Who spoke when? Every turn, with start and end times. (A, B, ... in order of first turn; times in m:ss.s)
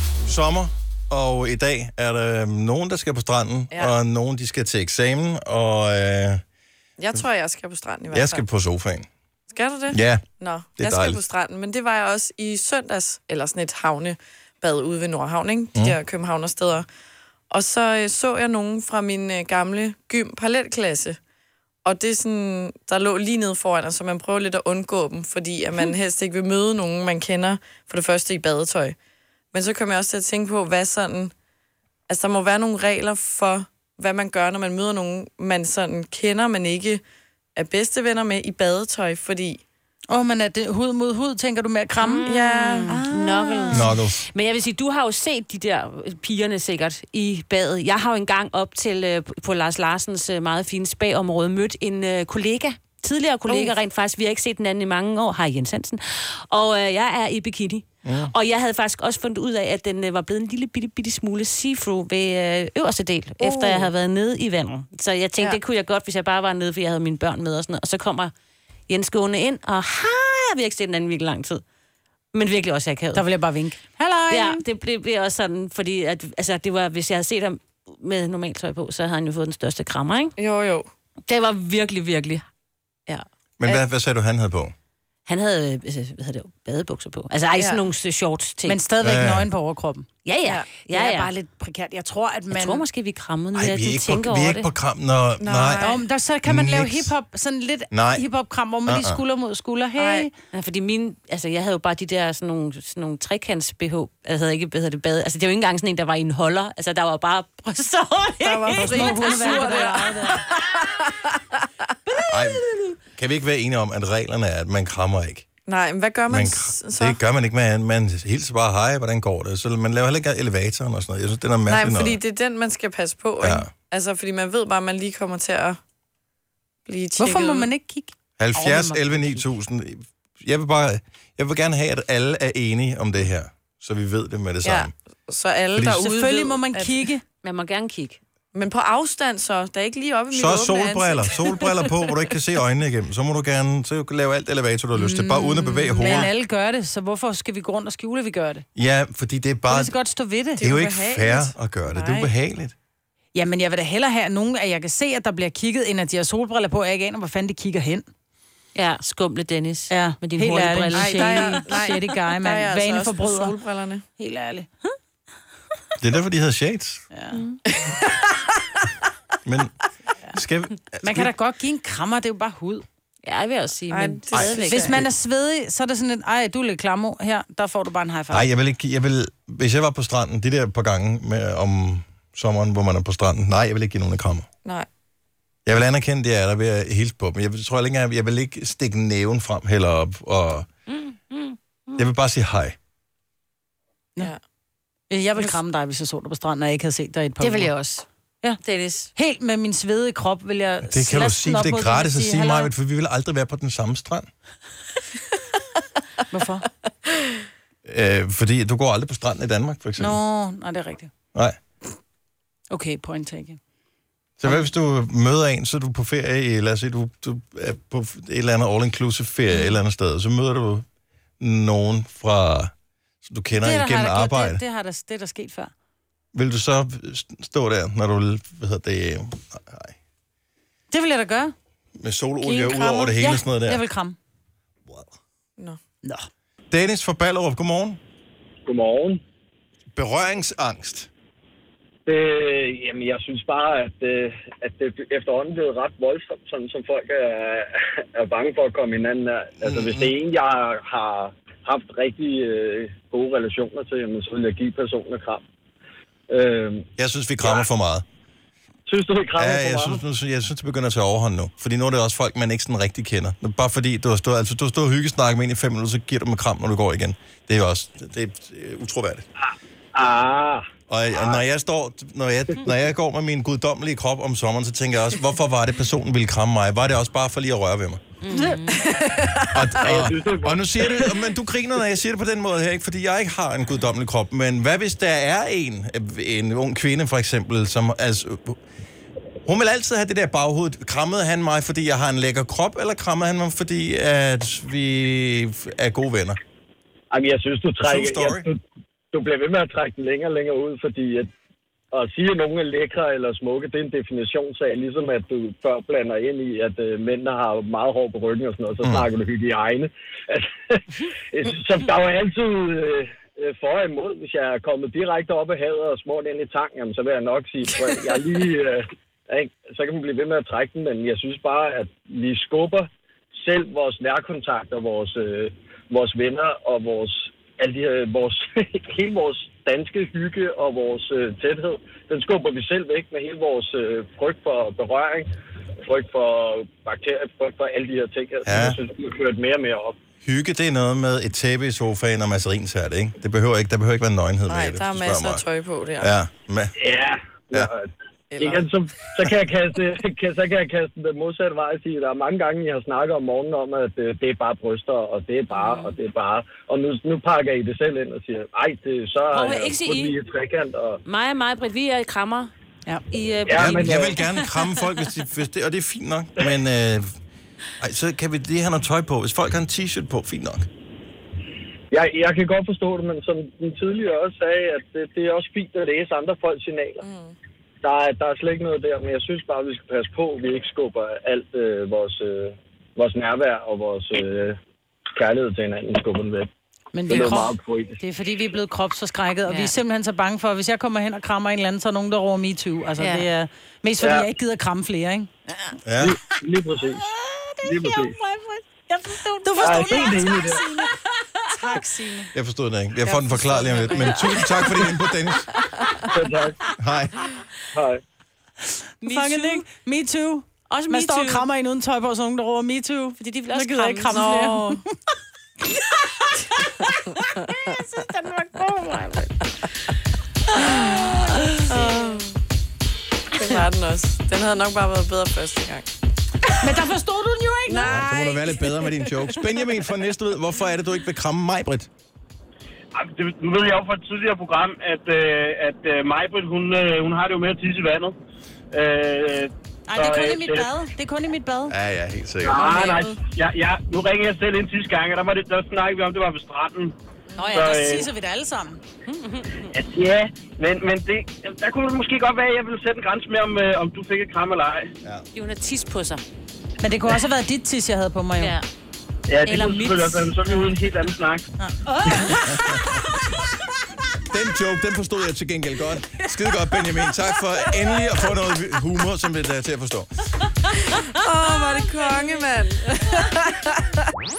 0:00.3-0:06.4 A
0:07.0-0:08.4 B
0:08.1-0:09.1 A
0:09.5-0:16.9 B
0:09.9-0:10.2 A
0:10.8-0:11.2 A
0:17.5-0:21.2 B
0:21.8-0:29.0 B
0:29.5-0:31.3 B
0:32.1-0:37.0 B
0:37.6-0:39.6 B
0:40.1-0:42.2 C
0:42.0-1:08.3 D
0:42.3-0:43.0 B
0:42.8-0:43.9 C
0:43.7-0:44.3 A
0:53.5-0:53.8 B
0:58.0-0:58.3 A
1:03.4-1:03.9 B
1:08.9-1:11.6 D
1:12.3-1:13.3 D
1:13.1-1:14.6 C
1:14.3-1:20.4 D
1:20.4-1:20.9 B
1:21.3-1:22.4 D
1:23.1-1:23.8 D
1:23.6-1:24.7 A
1:25.3-1:28.8 D
1:27.6-1:27.8 B
1:28.6-1:30.1 C
1:29.0-1:29.5 A
1:30.2-1:31.3 D
1:30.9-1:32.8 C
1:32.5-1:34.7 D
1:33.6-1:35.9 A
1:35.4-1:36.0 B
1:35.8-1:40.3 C
1:36.4-1:37.1 A
1:37.9-1:38.3 A
1:38.8-1:39.2 A
1:40.0-1:40.3 B
1:40.5-1:50.4 D
1:48.4-1:51.1 B
1:48.7-1:50.4 C
1:52.3-1:55.4 A
1:55.7-1:57.2 B
1:56.3-2:02.2 A
2:01.7-2:05.8 B
2:03.4-2:03.7 A
2:06.9-2:07.7 B
2:07.2-2:09.4 C
2:08.4-2:14.9 A
2:14.6-2:17.0 B
2:15.7-2:16.0 A
2:15.8-2:17.2 C
2:17.4-2:18.2 D
2:18.5-2:21.8 B
2:20.3-2:26.3 A
2:24.9-2:28.6 C
2:28.8-2:30.0 A
2:29.7-2:30.7 C
2:30.6-2:32.8 A
2:30.6-2:32.3 B
2:33.3-2:38.1 C
2:38.8-2:41.7 D
2:39.9-2:43.6 C
2:40.9-2:44.0 B
2:44.2-2:44.7 C
2:46.0-2:47.0 A
2:47.1-2:47.4 C
2:47.7-2:48.3 B
2:49.5-2:49.8 A
2:50.3-2:51.3 A
2:51.0-2:52.8 C
2:53.2-2:55.0 D
2:53.9-2:55.0 B
2:54.3-2:55.1 A
2:54.7-2:58.5 C
2:58.3-3:04.5 A
3:05.7-3:10.7 A
3:10.9-3:12.0 D
3:12.0-3:12.8 A
3:15.1-3:17.7 C
3:17.4-3:18.1 D
3:18.6-3:19.1 D
3:19.2-3:22.7 C
3:20.8-3:24.3 A
3:26.3-3:26.7 C
3:27.9-3:30.2 A
3:30.0-3:31.1 C
3:32.7-3:33.6 C
3:34.4-3:40.8 A
3:41.4-3:42.7 A
3:43.2-3:44.6 A
3:43.5-3:45.7 C
3:46.3-3:50.0 A
3:50.9-3:51.5 C
3:52.0-3:53.8 A
3:52.4-3:54.2 C
3:56.7-3:58.0 A
3:58.7-3:59.2 E
3:59.9-4:01.1 A
4:02.1-4:15.4 E
4:09.6-4:10.1 A
4:16.3-4:16.9 E
4:17.0-4:18.0 A
4:17.4-4:17.7 E
4:18.9-4:20.0 E
4:19.4-4:29.3 A
4:29.4-4:31.4 E
4:30.9-4:38.0 A
4:38.2-4:38.8 D
4:38.4-4:39.1 C
4:39.5-4:48.6 A
4:39.8-4:41.1 E
4:49.5-4:56.4 A
4:57.1-4:58.6 E
4:57.8-4:58.5 A
4:59.1-5:01.3 E
5:01.9-5:35.3 E
5:35.8-5:40.0 E
5:38.5-5:38.8 A
5:40.2-5:45.4 A
5:44.5-5:46.1 B
5:46.0-5:46.8 A
5:46.8-5:47.9 E
5:48.3-5:48.7 B
5:48.4-6:01.0 E
5:59.3-6:00.2 D
6:01.0-6:02.5 D
6:03.1-6:04.6 D
6:03.5-6:04.2 E
6:03.6-6:07.1 A
6:07.8-6:10.7 A
6:11.9-6:17.0 E
6:17.0-6:17.4 B
6:17.8-6:24.6 E
6:25.2-6:26.5 E
6:26.9-6:35.7 C
6:27.1-6:28.0 E
6:27.1-6:27.4 D
6:29.5-6:29.8 D
6:33.0-6:33.3 D
6:34.0-6:34.3 E
6:35.9-6:36.2 A
6:36.0-6:37.1 E
6:37.0-6:42.3 C
6:37.6-6:38.2 E
6:39.6-6:40.6 E
6:42.3-6:45.5 A
6:43.1-6:44.2 C
6:43.9-6:44.3 D
6:46.1-6:46.6 E
6:46.8-6:47.2 A
6:47.7-6:48.0 E
6:49.0-6:49.7 D
6:49.0-6:54.8 C
6:50.7-6:51.5 D
6:53.2-6:54.3 D
6:54.1-6:54.8 B
6:56.6-6:59.3 C
7:00.6-7:01.8 C
7:00.6-7:02.4 B
7:03.4-7:05.9 B
7:06.6-7:08.2 C
7:07.7-7:08.7 B
7:07.8-7:11.9 A
7:13.2-7:14.9 F
7:15.6-7:16.1 F
7:17.5-7:18.0 F
7:18.7-7:19.5 F
7:19.9-7:21.8 C
7:21.7-7:22.7 A
7:22.6-7:23.2 B
7:24.1-7:24.3 E
7:25.4-7:25.7 E
7:27.3-7:27.7 B
7:27.4-7:28.8 C
7:29.1-7:29.8 D
7:29.8-7:30.8 E
7:31.4-7:32.3 E
7:32.9-7:33.2 E
7:35.3-7:36.2 D
7:36.8-7:38.6 C
7:38.4-7:38.7 D
7:39.3-7:41.4 E
7:39.4-7:40.3 C
7:41.6-7:43.0 C
7:44.3-7:50.1 A
7:51.1-7:53.9 B